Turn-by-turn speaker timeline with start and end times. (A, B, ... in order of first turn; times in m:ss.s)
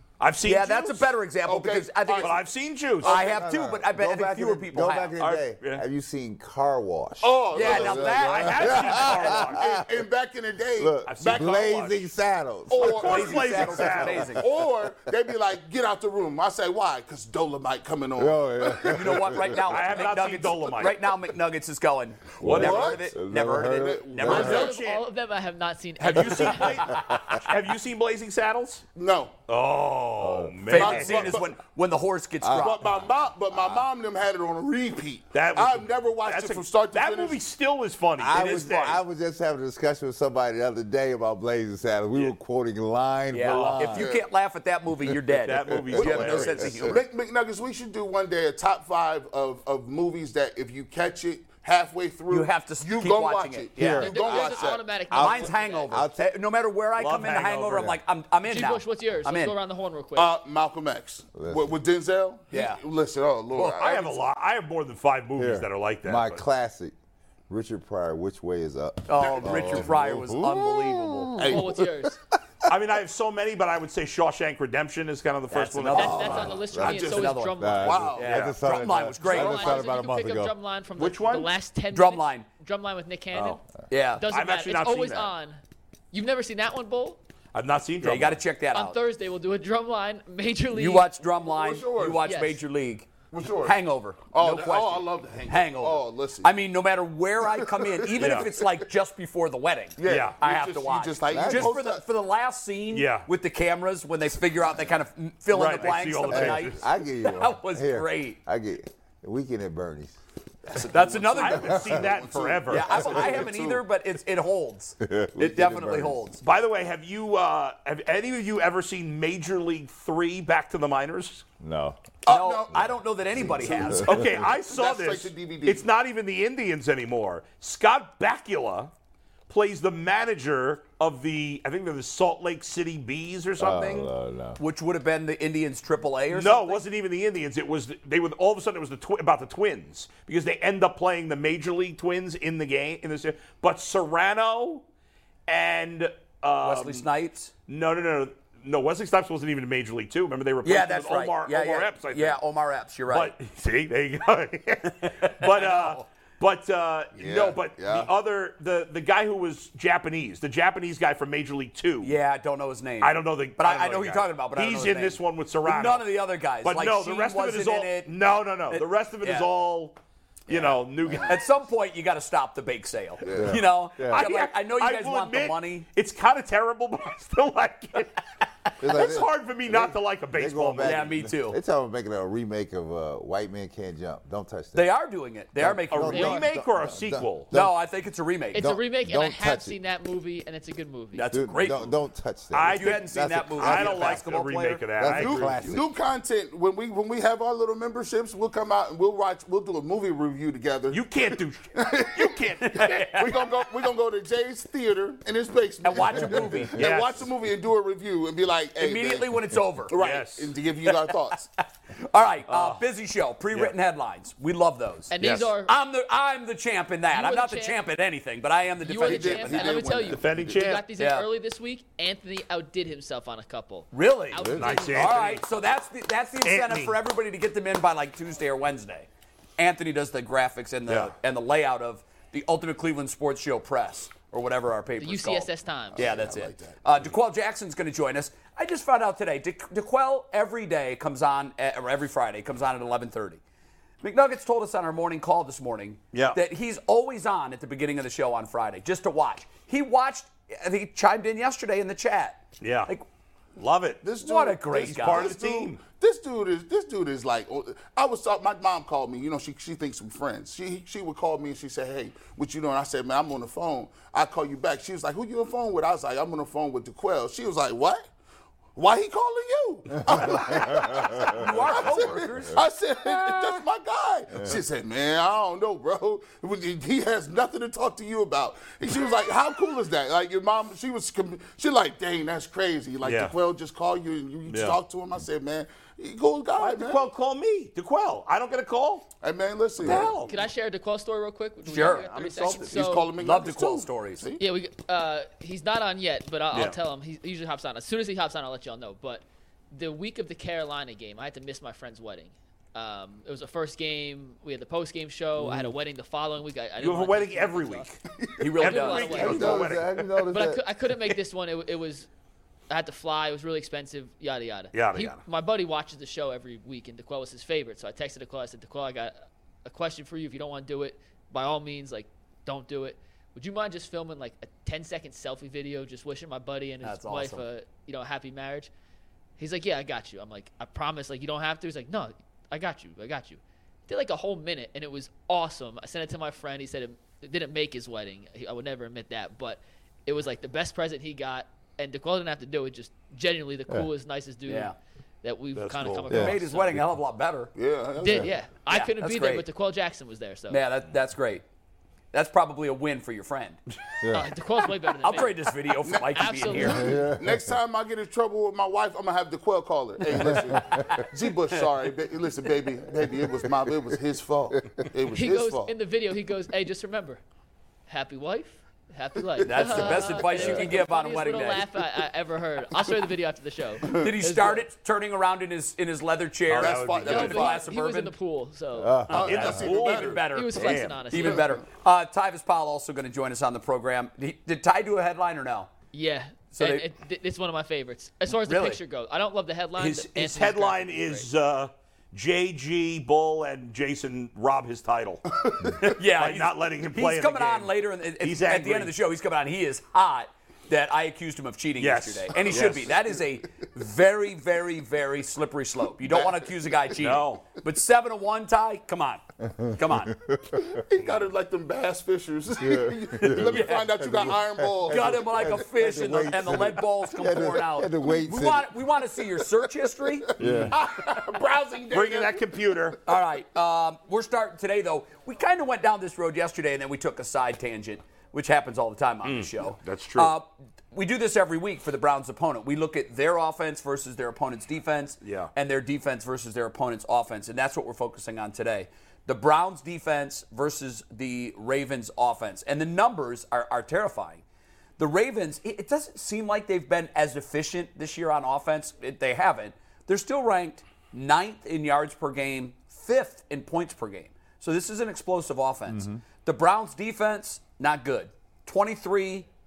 0:00.2-0:01.1 A
0:00.4-0:02.4 B
0:01.4-0:02.5 C
0:02.1-0:03.2 A
0:03.0-0:05.2 B
0:03.0-0:03.4 C
0:03.0-0:10.0 D
0:05.2-0:05.8 A
0:07.2-0:11.5 C
0:07.5-0:09.4 B
0:08.2-0:09.6 A
0:10.8-0:13.5 D
0:11.0-0:12.1 A
0:12.7-0:19.3 C
0:12.8-0:14.2 A
0:13.0-0:14.4 B
0:18.2-0:19.7 D
0:18.9-0:24.7 B
0:19.6-0:21.0 A
0:22.4-0:23.1 C
0:22.4-0:24.7 D
0:22.4-0:22.8 A
0:23.7-0:24.8 C
0:24.2-0:25.0 A
0:24.3-0:27.1 E
0:26.0-0:28.8 A
0:28.9-0:29.3 C
0:29.5-0:31.4 A
0:30.2-0:31.1 D
0:30.7-0:32.8 B
0:30.7-0:31.5 C
0:32.4-0:32.8 D
0:32.5-0:37.4 C
0:35.3-0:39.0 A
0:38.2-0:44.1 D
0:38.3-0:39.0 B
0:43.3-0:47.0 B
0:43.5-0:43.8 A
0:43.9-0:44.2 C
0:45.4-0:46.7 A
0:45.7-0:47.0 D
0:46.0-0:54.8 C
0:52.3-0:54.4 B
0:53.8-0:56.2 D
0:53.9-0:56.0 E
0:55.1-0:59.6 B
0:57.0-0:57.9 A
0:57.7-0:58.0 D
0:58.4-1:00.3 E
1:00.1-1:04.2 C
1:01.3-1:01.7 D
1:02.5-1:02.8 B
1:03.6-1:06.4 A
1:05.4-1:06.9 D
1:07.5-1:11.9 D
1:09.1-1:11.4 B
1:09.3-1:09.8 C
1:11.4-1:11.9 C
1:11.4-1:12.2 E
1:12.7-1:16.6 A
1:15.5-1:19.8 B
1:15.9-1:18.0 E
1:16.0-1:20.5 D
1:17.8-1:18.2 C
1:18.2-1:18.6 A
1:19.2-1:23.6 E
1:21.0-1:21.5 A
1:21.9-1:22.4 B
1:23.3-1:23.6 A
1:23.9-1:24.2 B
1:24.2-1:25.6 E
1:24.3-1:25.3 A
1:26.1-1:27.2 E
1:27.5-1:28.4 A
1:28.0-1:29.0 B
1:28.7-1:31.1 E
1:30.7-1:33.1 B
1:31.3-1:32.2 C
1:32.2-1:32.6 E
1:33.3-1:36.6 C
1:33.6-1:48.4 B
1:37.4-1:38.7 C
1:38.2-1:38.5 A
1:40.0-1:42.0 C
1:40.0-1:40.4 A
1:41.3-1:41.8 D
1:42.9-1:43.3 A
1:45.5-1:46.8 A
1:46.2-1:50.2 D
1:50.6-1:53.8 C
1:50.9-1:51.6 B
1:50.9-1:53.1 A
1:51.7-1:52.0 D
1:52.7-1:56.4 B
1:55.0-1:56.2 D
1:56.4-2:01.4 A
2:01.6-2:02.0 D
2:02.2-2:04.1 B
2:02.2-2:05.9 C
2:03.4-2:04.4 D
2:04.0-2:08.9 A
2:09.5-2:14.1 A
2:13.6-2:14.6 D
2:14.6-2:16.8 B
2:16.3-2:24.8 A
2:25.5-2:27.0 A
2:26.6-2:27.5 B
2:27.7-2:32.4 A
2:30.6-2:33.3 B
2:33.1-2:42.1 A
2:35.0-2:36.0 B
2:37.2-2:38.1 D
2:42.0-2:48.1 B
2:43.0-2:50.0 A
2:48.7-2:49.5 B
2:50.5-2:51.4 A
2:51.2-2:55.8 B
2:53.2-2:53.6 C
2:53.3-2:54.2 D
2:54.1-3:01.1 A
2:58.8-3:05.0 D
3:00.8-3:01.6 B
3:04.7-3:06.4 B
3:05.5-3:07.8 D
3:05.9-3:07.5 A
3:07.5-3:08.7 B
3:08.5-3:11.2 E
3:08.6-3:09.8 D
3:11.1-3:11.9 B
3:11.3-3:14.2 D
3:12.5-3:15.6 A
3:12.7-3:14.8 B
3:15.0-3:15.9 D
3:15.1-3:31.5 C
3:20.9-3:23.4 A
3:25.8-3:26.9 B
3:26.8-3:27.3 A
3:28.8-3:29.9 B
3:30.0-3:30.5 A
3:30.8-3:39.9 B
3:32.5-3:32.8 A
3:35.1-3:35.7 E
3:35.2-3:35.5 A
3:37.1-3:37.8 E
3:38.8-3:45.4 E
3:39.0-3:40.6 C
3:40.0-3:40.8 A
3:41.0-3:41.3 B
3:43.9-3:49.1 B
3:44.4-3:44.9 D
3:44.5-3:45.4 A
3:46.4-3:47.0 A
3:49.6-4:03.4 B
3:50.9-3:51.1 A
3:55.0-3:56.0 E
3:55.9-3:56.8 C
4:04.0-4:13.0 B
4:06.1-4:06.4 A
4:12.6-4:12.9 A
4:13.6-4:14.1 A
4:14.0-4:28.1 C
4:14.2-4:15.3 B
4:14.7-4:15.8 A
4:28.8-4:47.0 C
4:30.1-4:31.4 D
4:31.3-4:32.6 B
4:43.0-4:43.3 A
4:44.5-4:44.8 A
4:46.6-4:49.1 A
4:49.2-4:50.2 C
4:49.8-4:50.4 A
4:50.1-4:53.1 E
4:51.6-4:54.2 B
4:52.7-4:54.4 C
4:54.4-5:07.9 E
5:05.4-5:05.7 D
5:06.8-5:08.0 A
5:08.4-5:09.5 B
5:08.5-5:09.5 E
5:08.6-5:10.0 A
5:09.1-5:10.6 D
5:09.2-5:09.8 C
5:10.3-5:12.1 E
5:12.7-5:28.7 E
5:14.7-5:15.2 A
5:26.8-5:27.4 B
5:29.4-5:46.8 E
5:44.4-5:44.7 B
5:45.5-5:46.1 A
5:46.1-5:47.5 B
5:47.5-5:48.3 C
5:48.0-5:50.6 E
5:48.7-5:49.4 B
5:50.5-5:51.4 B
5:52.1-5:53.6 B
5:54.0-5:54.3 D
5:54.1-5:55.6 E
5:55.0-5:56.9 B
5:55.8-6:05.7 C
5:56.1-5:56.9 E
5:56.7-5:57.6 D
6:00.1-6:00.8 D
6:00.2-6:01.0 B
6:03.1-6:03.5 D
6:05.1-6:07.2 E
6:07.9-6:14.6 E
6:09.4-6:11.7 B
6:09.5-6:10.2 C
6:14.0-6:18.1 B
6:16.5-6:17.5 A
6:16.5-6:17.7 C
6:17.0-6:19.1 E
6:18.8-6:19.6 D
6:19.0-6:20.3 C
6:19.1-6:25.7 B
6:19.2-6:21.0 A
6:20.2-6:21.6 E
6:25.9-6:31.2 E
6:26.5-6:26.9 B
6:28.3-6:28.8 B
6:29.8-6:35.2 A
6:35.4-6:35.9 C
6:35.8-6:50.2 B
6:36.0-6:38.9 A
6:41.8-6:42.9 A
6:46.0-6:46.5 C
6:47.0-6:47.4 A
6:49.5-6:50.8 D
6:50.6-6:55.5 C
6:52.6-6:58.8 D
6:53.4-6:54.0 B
6:54.9-7:00.3 B
7:00.4-7:00.8 D
7:00.4-7:00.8 A
7:00.4-7:02.8 C
7:01.9-7:03.0 A
7:03.0-7:24.4 B
7:09.2-7:10.3 A
7:15.2-7:15.5 A
7:25.0-7:39.5 B
7:35.9-7:36.2 D